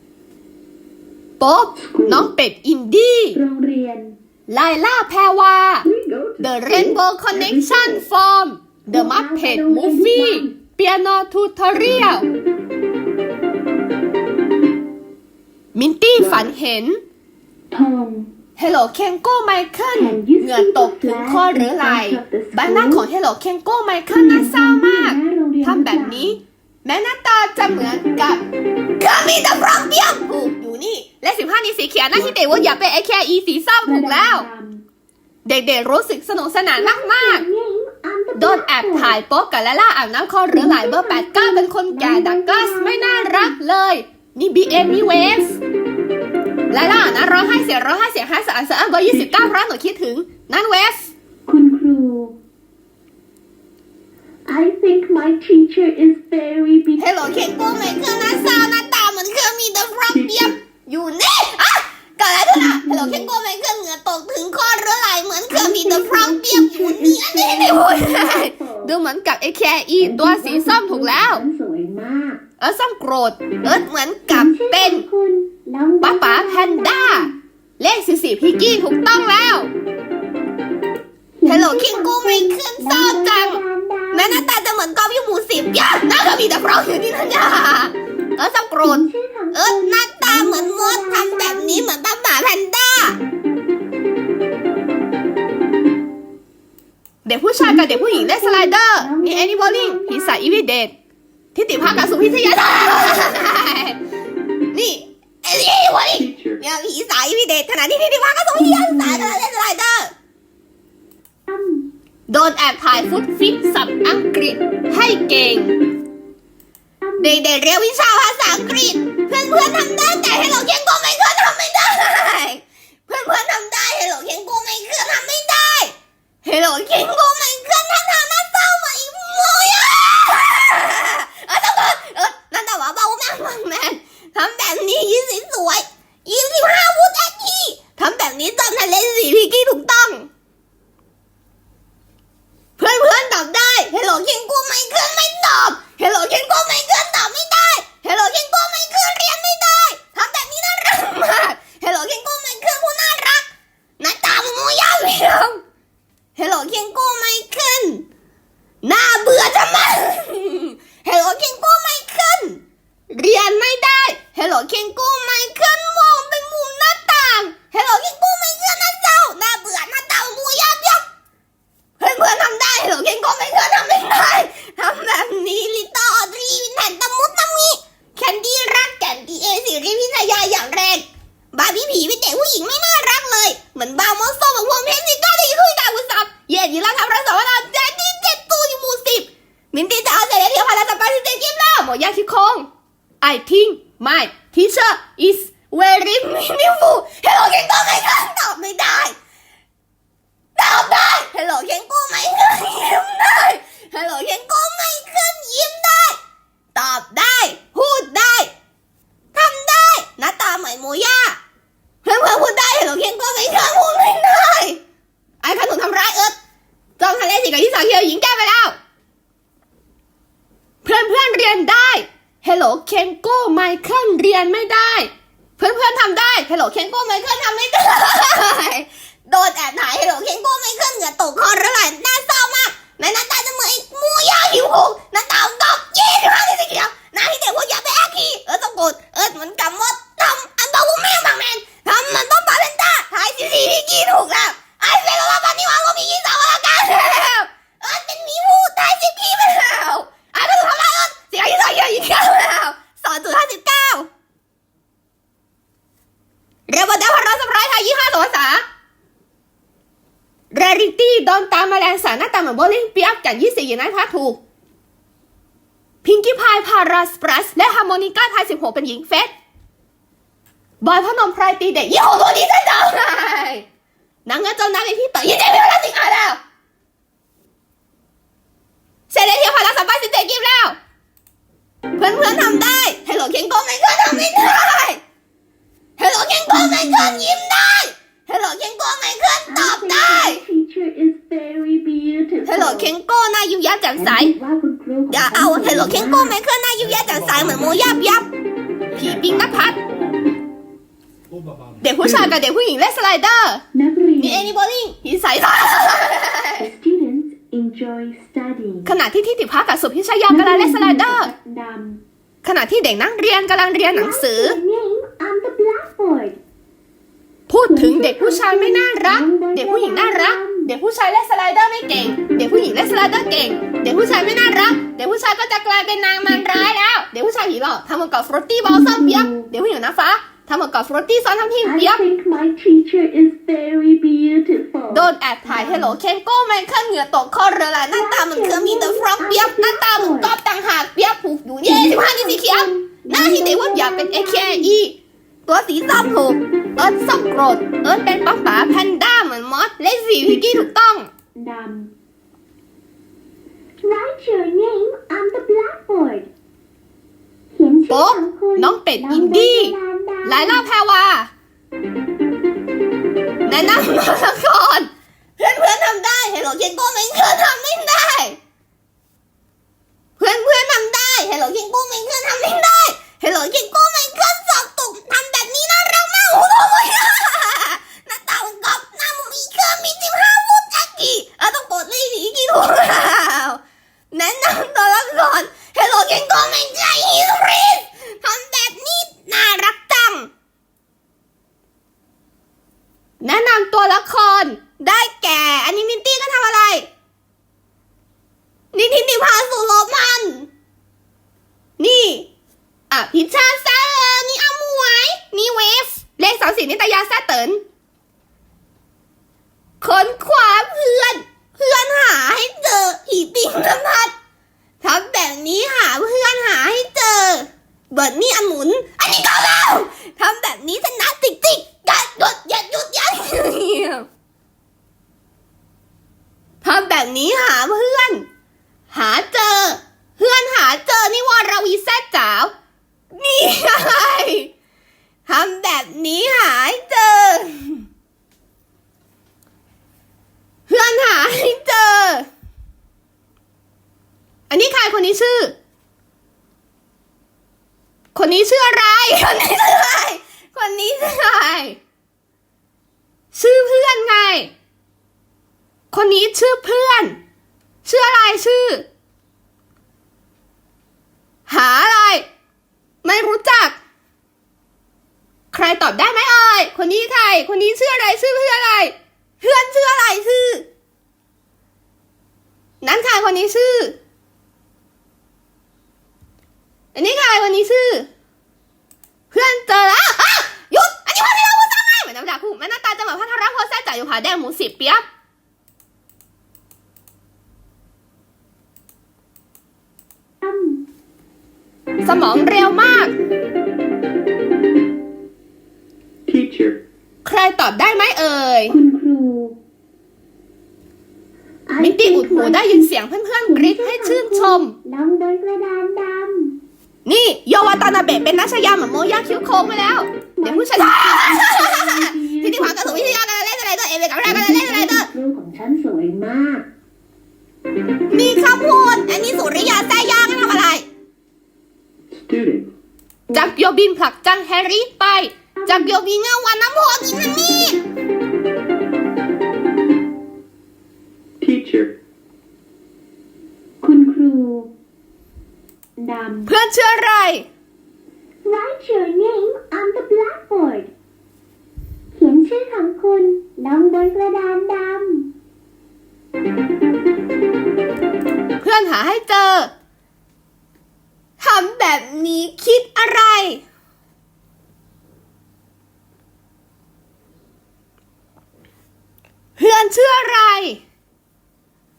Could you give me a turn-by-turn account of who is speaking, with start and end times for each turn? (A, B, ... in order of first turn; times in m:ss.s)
0:01.4-0:03.4 A
0:01.8-0:02.3 B
0:03.3-0:04.2 C
0:04.5-0:05.9 A
0:05.8-0:08.0 B
0:06.4-0:12.3 A
0:08.9-0:10.6 C
0:15.8-0:17.0 A
0:16.2-0:16.5 B
0:17.7-0:18.3 C
0:18.6-0:28.4 A
0:19.9-0:23.1 C
0:24.1-0:26.4 C
0:29.0-0:34.5 A
0:32.1-0:32.6 B
0:33.8-0:34.8 C
0:35.4-0:37.4 A
0:36.8-0:39.2 C
0:38.4-0:45.6 A
0:40.5-0:43.6 C
0:46.7-0:51.1 A
0:49.1-0:49.6 B
0:51.5-0:52.4 C
0:54.5-0:57.3 C
0:57.0-1:11.4 A
1:00.1-1:00.6 B
1:02.5-1:03.3 C
1:05.5-1:08.9 C
1:10.0-1:12.4 C
1:12.6-1:15.0 A
1:13.6-1:17.4 C
1:16.0-1:19.7 A
1:21.4-1:24.5 C
1:21.4-1:23.6 A
1:24.1-1:33.2 A
1:28.8-1:31.9 C
1:37.2-1:40.9 A
1:37.6-1:40.6 C
1:41.6-1:44.0 A
1:44.7-1:50.1 A
1:46.1-1:46.6 B
1:48.6-1:49.4 C
1:51.5-1:51.9 C
1:52.3-1:55.8 A
1:57.0-1:57.4 C
1:57.2-2:20.3 A
2:22.8-2:35.6 A
2:36.4-2:38.0 A
2:38.8-2:51.0 A
2:52.0-3:12.7 A
3:13.2-3:19.2 A
3:20.6-3:26.2 A
3:26.8-3:28.5 A
3:29.3-3:31.4 A
3:32.0-3:34.8 A
3:35.4-3:36.4 A
3:37.0-3:38.8 A
3:40.8-4:14.1 A
4:16.7-4:18.6 A
4:20.5-4:24.4 A
4:26.0-4:29.3 A
4:30.8-4:33.6 A
4:34.3-4:36.4 A
4:39.1-4:40.8 A
4:42.0-4:45.0 A
4:44.1-4:44.5 C
4:46.0-4:50.4 A
4:46.5-4:47.4 C
4:49.5-4:52.9 C
4:52.5-4:54.3 A
4:54.0-4:56.4 C
4:55.1-4:58.3 A
4:59.0-4:59.8 A
5:01.8-5:03.6 A
5:02.0-5:02.4 B
5:03.7-5:04.5 C
5:04.2-5:06.7 A
5:06.6-5:09.0 C
5:08.9-5:11.3 A
5:10.3-5:12.0 C
5:12.4-5:14.6 A
5:13.9-5:16.4 C
5:17.5-5:32.0 A
5:17.7-5:20.7 C
5:26.2-5:26.7 C
5:28.6-5:29.5 C
5:31.6-5:36.0 C
5:34.9-5:51.1 A
5:37.9-5:40.4 C
5:41.6-5:44.8 C
5:50.2-5:50.7 B
5:51.4-5:51.9 C
5:53.8-5:56.3 C
5:57.5-6:00.6 C
5:57.9-6:01.3 A
6:03.5-6:08.4 A
6:10.2-6:23.6 A
6:24.1-6:30.3 A
6:33.2-6:36.9 A
6:38.7-6:40.5 A
6:41.8-6:42.3 A
6:42.9-6:47.6 A
6:49.8-6:54.1 A
6:54.8-7:04.1 A
7:06.6-7:08.3 A
7:08.9-7:12.5 A
7:13.2-7:14.5 A
7:15.3-7:17.8 A
7:20.7-7:22.3 A
7:24.5-7:25.6 A
7:28.2-7:31.8 A
7:33.3-7:34.5 A
7:35.9-7:37.2 A
7:37.8-7:38.9 A
7:41.5-7:42.3 A
7:43.0-7:43.8 A
7:45.5-7:50.7 A
7:52.8-7:54.0 A
7:57.0-7:58.1 A
7:59.3-8:05.0 A
8:10.4-8:10.8 C
8:12.0-8:13.1 A
8:16.3-8:16.8 B
8:17.2-8:18.8 A
8:18.7-8:19.6 C
8:21.7-8:22.9 C
8:21.8-8:24.8 A
8:23.5-8:26.6 C
8:27.0-8:35.1 A
8:30.4-8:33.2 C
8:34.2-8:36.7 C
8:38.1-8:40.9 A
8:42.1-8:42.7 B
8:43.3-8:47.8 A
8:45.6-8:46.0 C
8:51.4-8:52.0 B
8:53.8-8:54.7 C
8:56.0-8:56.5 C
8:56.5-8:57.5 A
8:58.4-9:00.9 C
9:02.1-9:05.3 C
9:08.6-9:09.7 A
9:11.4-9:13.6 A
9:19.6-9:20.8 A